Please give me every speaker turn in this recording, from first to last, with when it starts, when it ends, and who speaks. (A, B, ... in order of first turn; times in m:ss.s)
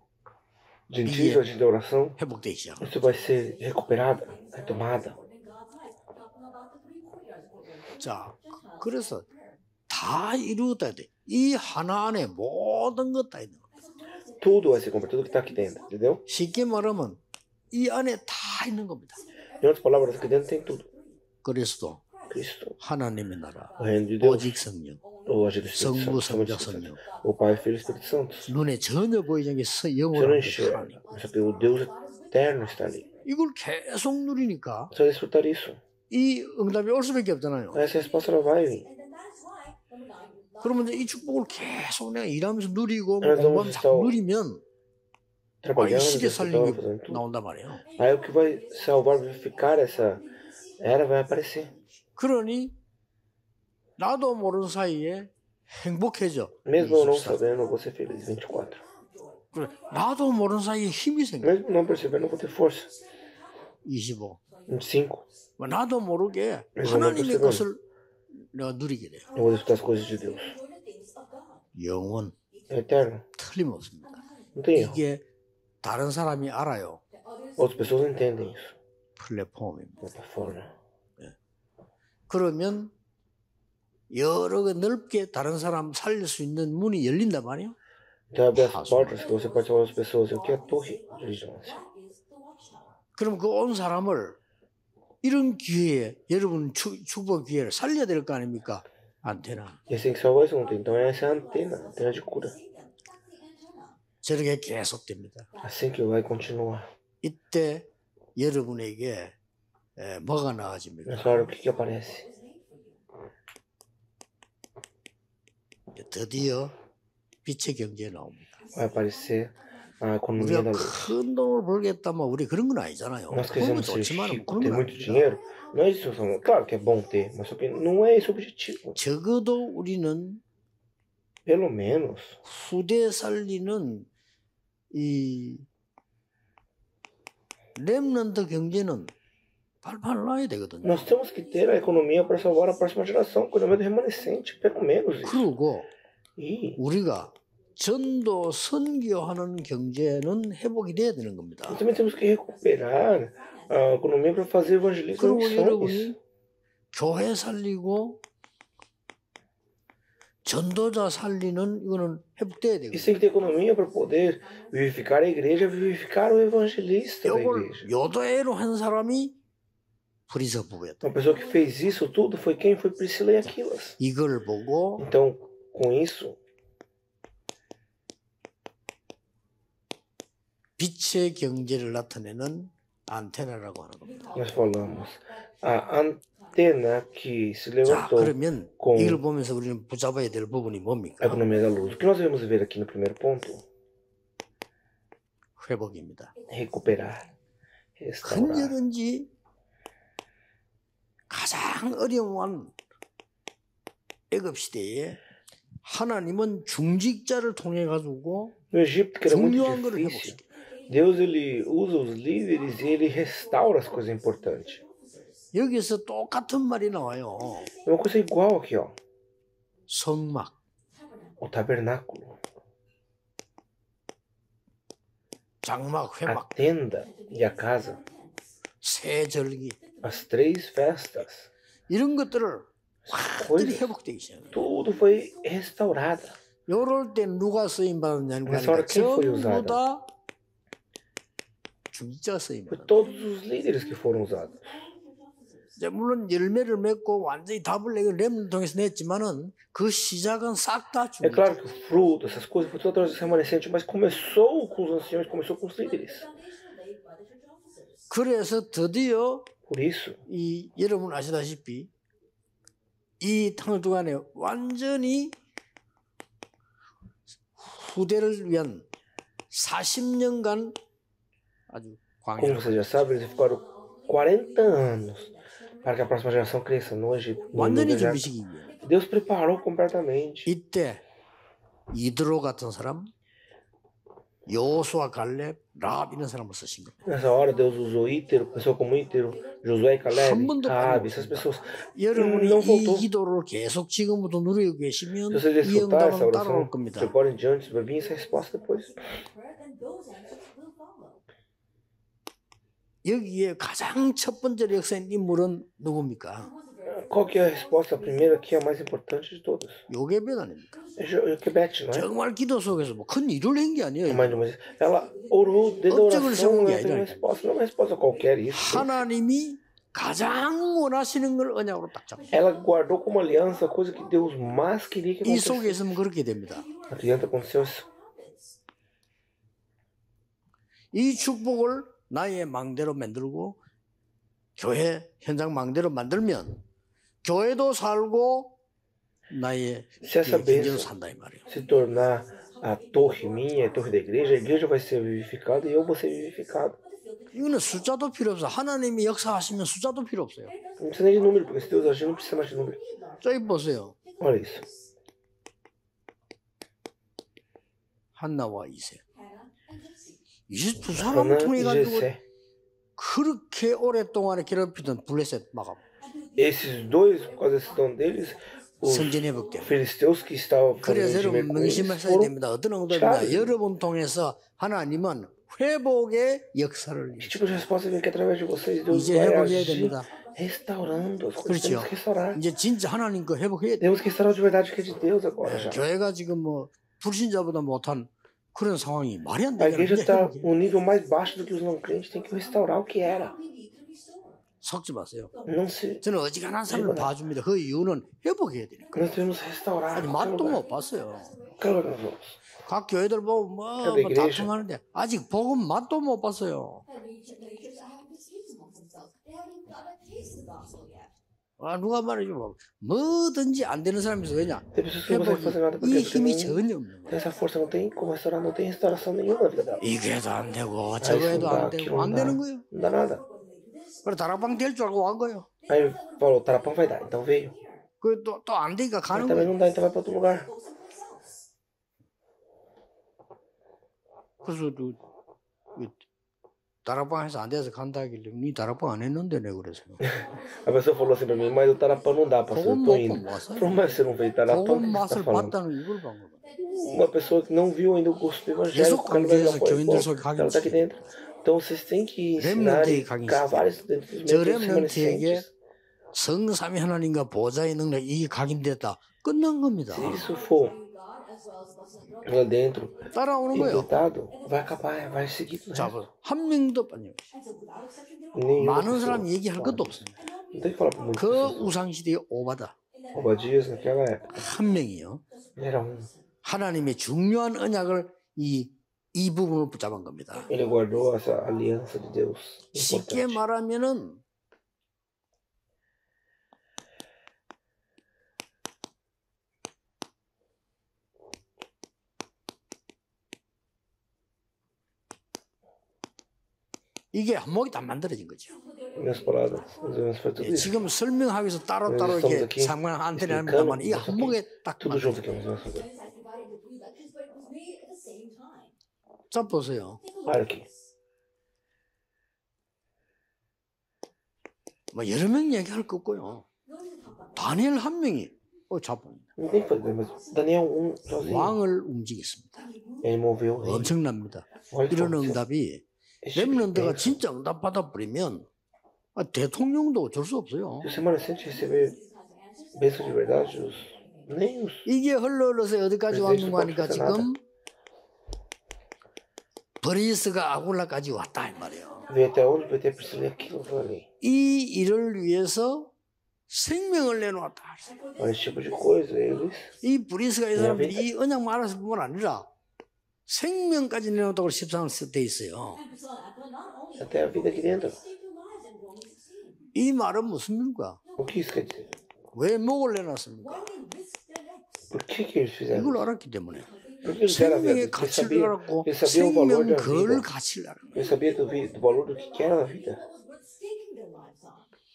0:00.9-0:02.2 A
0:01.0-0:01.5 B
0:02.2-0:02.9 B
0:02.8-0:05.2 A
0:03.0-0:09.6 C
0:08.0-0:09.3 B
0:09.9-0:13.7 B
0:13.8-0:15.7 C
0:14.4-0:16.2 A
0:16.3-0:17.2 B
0:17.7-0:19.2 B
0:19.6-0:20.9 A
0:19.7-0:21.2 C
0:21.4-0:22.0 B
0:22.3-0:22.8 A
0:22.8-0:25.0 B
0:23.8-0:24.6 A
0:25.3-0:28.5 A
0:25.7-0:27.0 B
0:27.3-0:28.4 C
0:28.5-0:31.0 B
0:30.1-0:33.0 A
0:31.2-0:33.1 C
0:33.2-0:34.9 B
0:34.9-0:35.8 A
0:36.1-0:37.9 B
0:37.7-0:38.9 A
0:37.8-0:41.4 C
0:40.6-0:44.6 B
0:43.2-0:44.2 A
0:45.6-0:47.2 A
0:45.8-0:47.8 B
0:48.0-0:50.2 A
0:48.0-0:51.7 C
0:50.8-0:51.7 A
0:52.2-0:52.8 B
0:54.0-0:57.4 B
0:56.7-0:58.8 A
0:57.3-1:00.3 C
0:59.5-1:01.6 B
1:01.4-1:02.9 A
1:02.0-1:03.7 C
1:03.8-1:04.4 B
1:04.7-1:05.3 A
1:05.6-1:09.3 B
1:06.8-1:07.7 A
1:09.3-1:10.6 A
1:09.5-1:11.7 C
1:11.8-1:12.4 B
1:12.7-1:13.2 A
1:13.4-1:14.2 B
1:14.6-1:15.0 A
1:14.7-1:15.2 B
1:15.8-1:17.0 B
1:17.3-1:18.0 C
1:17.6-1:18.8 A
1:19.2-1:20.1 B
1:20.0-1:20.7 A
1:22.3-1:22.9 B
1:24.1-1:27.8 B
1:28.3-1:31.8 A
1:28.6-1:29.3 B
1:29.6-1:32.9 C
1:33.2-1:34.4 B
1:35.2-1:39.8 B
1:39.9-1:42.6 A
1:40.7-1:44.0 C
1:44.2-1:45.5 B
1:45.6-1:46.9 A
1:47.2-1:49.4 B
1:50.0-1:51.5 B
1:51.1-1:52.2 A
1:51.6-1:53.0 C
1:55.9-1:56.8 B
1:57.4-1:58.6 B
1:58.7-2:01.2 A
2:00.4-2:05.2 B
2:03.3-2:09.0 A
2:06.0-2:06.8 C
2:09.0-2:10.4 B
2:11.5-2:12.4 A
2:12.4-2:14.1 B
2:14.9-2:15.7 B
2:17.8-2:19.1 B
2:19.8-2:21.1 B
2:20.8-2:25.5 A
2:21.2-2:23.2 C
2:25.2-2:25.9 B
2:26.4-2:26.8 A
2:26.8-2:31.8 B
2:31.7-2:36.2 A
2:35.2-2:36.2 B
2:36.9-2:38.2 B
2:40.4-2:43.2 B
2:42.9-2:47.9 A
2:43.8-2:44.2 C
2:47.2-2:49.4 B
2:50.3-2:51.1 B
2:51.0-2:54.0 A
2:54.0-2:55.1 B
2:55.0-2:56.4 A
3:00.8-3:04.3 B
3:04.3-3:09.2 A
3:04.4-3:05.0 C
3:07.9-3:11.4 B
3:11.2-3:13.6 A
3:15.6-3:16.3 B
3:16.5-3:17.3 A
3:18.0-3:18.8 A
3:18.2-3:19.3 B
3:21.3-3:22.8 B
3:24.3-3:25.2 B
3:25.8-3:28.6 B
3:28.7-3:34.8 A
3:29.3-3:30.4 B
3:31.2-3:31.5 C
3:32.5-3:35.5 C
3:35.5-3:37.7 B
3:37.8-3:39.0 A
3:39.9-3:40.6 B
3:40.9-3:41.4 C
3:41.4-3:42.4 A
3:45.6-3:46.5 B
3:46.3-3:48.0 A
3:47.1-3:48.6 C
3:48.8-3:49.8 B
3:50.0-3:51.5 A
3:51.9-3:54.6 B
3:53.1-3:53.9 A
3:54.5-3:56.4 A
3:56.7-4:00.1 B
3:58.5-3:59.8 A
4:01.9-4:03.1 B
4:02.7-4:04.9 A
4:03.5-4:05.7 C
4:05.8-4:11.6 B
4:11.2-4:16.3 A
4:14.3-4:18.1 C
4:18.1-4:19.5 B
4:19.7-4:20.2 A
4:20.3-4:21.9 B
4:23.2-4:25.4 B
4:27.6-4:28.9 B
4:29.5-4:30.8 B
4:31.7-4:33.1 B
4:32.4-4:35.3 A
4:33.1-4:36.4 C
4:35.8-4:38.3 A
4:37.5-4:38.7 B
4:37.7-4:38.0 C
4:38.8-4:40.5 A
4:38.9-4:39.2 C
4:40.5-4:41.0 B
4:41.9-4:43.1 B
4:44.5-4:47.0 B
4:47.0-4:53.1 A
4:50.1-4:57.2 B
4:55.3-4:59.0 A
4:59.0-5:01.2 C
5:03.0-5:06.5 B
5:06.5-5:08.3 C
5:06.9-5:09.9 A
5:09.9-5:10.8 B
5:11.0-5:12.1 A
5:11.9-5:14.5 B
5:14.1-5:19.0 A
5:15.3-5:15.9 C
5:15.9-5:17.2 B
5:18.5-5:22.3 B
5:22.3-5:26.0 A
5:22.4-5:23.9 C
5:25.2-5:26.7 B
5:26.5-5:28.6 C
5:26.9-5:27.9 A
5:30.9-5:33.6 B
5:34.6-5:36.6 B
5:37.2-5:38.6 B
5:39.3-5:41.5 B
5:40.0-5:40.9 A
5:41.5-5:46.8 A
5:41.5-5:47.9 C
5:47.3-5:50.5 B
5:50.5-5:54.6 C
5:50.8-5:52.8 A
5:53.2-5:54.0 B
5:54.2-5:54.6 A
5:58.2-5:59.0 B
5:59.2-6:00.2 C
6:00.5-6:02.1 B
6:00.9-6:02.2 A
6:03.0-6:05.8 B
6:06.1-6:09.6 C
6:06.4-6:12.4 A
6:08.8-6:09.8 B
6:10.8-6:17.4 B
6:12.9-6:13.6 A
6:17.2-6:22.4 A
6:18.8-6:19.2 C
6:18.9-6:20.1 B
6:20.1-6:21.5 C
6:21.5-6:23.9 B
6:23.8-6:25.8 A
6:24.0-6:25.4 C
6:25.4-6:30.5 B
6:29.6-6:33.4 A
6:30.4-6:34.4 C
6:34.6-6:35.3 B
6:35.5-6:36.0 A
6:36.0-6:38.9 B
6:36.7-6:37.1 A
6:38.9-6:40.6 A
6:39.0-6:41.8 C
6:39.9-6:41.4 B
6:41.6-6:42.4 A
6:42.6-6:46.8 B
6:43.8-6:44.5 A
6:46.9-6:51.2 C
6:51.6-6:57.2 B
6:54.7-6:59.8 A
6:57.1-7:00.0 C
6:59.8-7:02.7 B
7:01.0-7:03.2 A
7:02.7-7:04.3 C
7:04.0-7:05.5 B
7:05.7-7:07.6 A
7:06.3-7:07.4 C
7:08.0-7:09.5 B
7:09.1-7:10.5 A
7:09.6-7:11.5 C
7:14.4-7:15.0 B
7:15.8-7:16.0 B
7:16.8-7:20.1 B
7:20.0-7:25.6 A
7:20.1-7:23.0 C
7:22.5-7:23.8 B
7:23.6-7:24.8 C
7:24.5-7:26.4 B
7:26.6-7:28.7 C
7:26.7-7:35.5 A
7:28.7-7:31.1 B
7:32.4-7:33.7 B
7:34.3-7:35.5 B
7:36.1-7:40.2 B
7:39.9-7:40.8 A
7:40.0-7:45.0 C
7:42.2-7:46.0 A
7:43.1-7:43.9 B
7:45.7-7:47.3 B
7:47.3-7:48.7 C
7:48.4-7:50.0 A
7:48.6-7:50.2 B
7:50.5-7:51.7 A
7:50.5-7:51.1 C
7:51.2-7:52.8 B
7:53.1-7:54.4 A
7:53.2-7:54.0 C
7:54.3-7:55.2 B
7:55.6-7:56.1 A
7:55.6-7:56.1 C
7:56.4-8:00.5 B
8:00.5-8:03.4 A
8:02.7-8:04.2 B
8:17.1-8:18.6 B
8:18.6-8:20.1 C
8:19.0-8:20.9 A
8:20.4-8:25.3 B
8:21.8-8:25.9 A
8:25.2-8:28.8 C
8:29.3-8:30.0 B
8:30.2-8:30.7 A
8:30.3-8:30.7 C
8:34.9-8:36.5 B
8:36.7-8:37.4 C
8:37.4-8:39.3 B
8:39.4-8:41.6 A
8:41.2-8:42.7 B
8:43.0-8:43.9 A
8:43.6-8:48.5 B
8:44.7-8:45.4 A
8:46.2-8:47.2 A
8:49.2-8:50.9 B
8:50.8-8:52.0 A
8:51.0-8:54.3 C
8:52.8-8:54.9 A
8:54.9-8:57.4 B
8:56.1-8:57.3 A
8:59.8-9:02.1 B
9:01.9-9:03.7 C
9:02.1-9:04.1 A
9:04.2-9:05.9 B
9:06.5-9:08.0 B
9:08.2-9:09.7 A
9:08.2-9:09.8 C
9:09.8-9:12.5 B
9:10.6-9:11.1 A
9:13.3-9:15.8 B
9:15.8-9:19.7 C
9:17.0-9:18.0 A
9:19.7-9:21.0 B
9:21.2-9:21.9 A
9:22.3-9:23.7 B
9:23.6-9:24.9 C
9:24.9-9:26.1 A
9:25.7-9:26.7 B
9:26.7-9:27.2 C
9:27.0-9:30.3 A
9:27.3-9:31.1 B
9:30.9-9:33.0 A
9:31.0-9:34.7 C